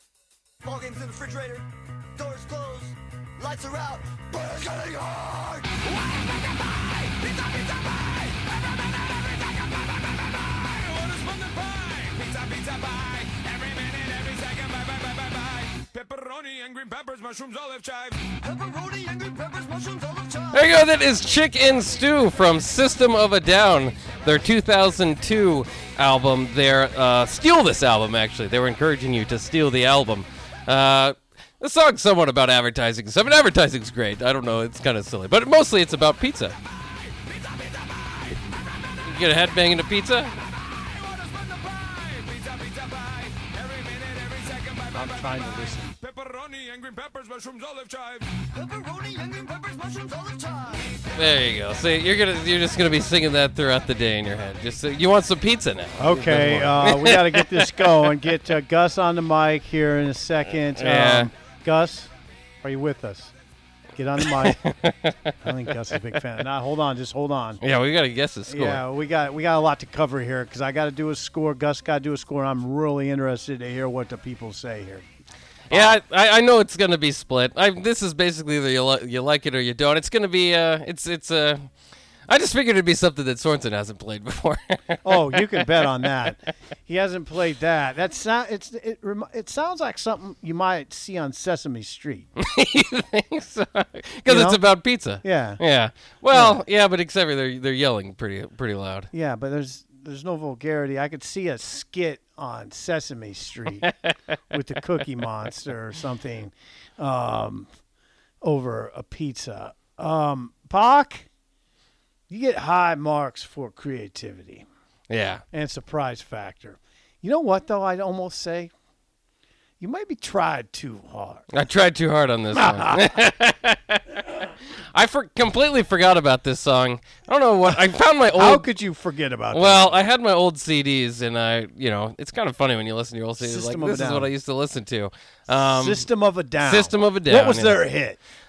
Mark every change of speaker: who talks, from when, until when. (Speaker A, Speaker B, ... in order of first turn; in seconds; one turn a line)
Speaker A: 0.6-5.7
Speaker B: 11.0-18.2
Speaker A: 18.4-20.6
Speaker C: 20.5-36.6
Speaker C: 39.0-40.3
Speaker B: 40.8-45.5
Speaker D: 44.9-46.0
Speaker B: 46.0-48.3
Speaker A: 48.5-51.0
Speaker C: 51.2-58.0
Speaker D: 56.0-62.1
Speaker C: 60.8-61.3
Speaker D: 62.6-63.3
Speaker D: 63.9-64.6
Speaker C: 64.2-66.0
Speaker D: 65.4-67.6
Speaker C: 67.6-68.8
Speaker D: 68.5-75.0
Speaker D: 75.7-76.0
Speaker C: 75.7-81.6
Speaker C: 82.3-85.9
Speaker D: 85.0-92.3
Speaker C: 92.4-99.1
Speaker D: 94.2-94.7
Speaker D: 95.2-95.6
Speaker D: 96.3-96.6
Speaker D: 99.1-103.9
Speaker C: 103.8-104.1
Speaker D: 104.5-107.7
Speaker D: 108.4-111.3
Speaker D: 112.3-114.7
Speaker C: 115.1-115.4
Speaker D: 115.5-118.7
Speaker D: 119.8-121.5
Speaker C: 121.5-128.7
Speaker D: 122.5-123.1
Speaker D: 127.7-130.1
Speaker C: 129.5-136.1
Speaker D: 133.4-134.3
Speaker D: 135.5-138.2
Speaker C: 136.6-137.8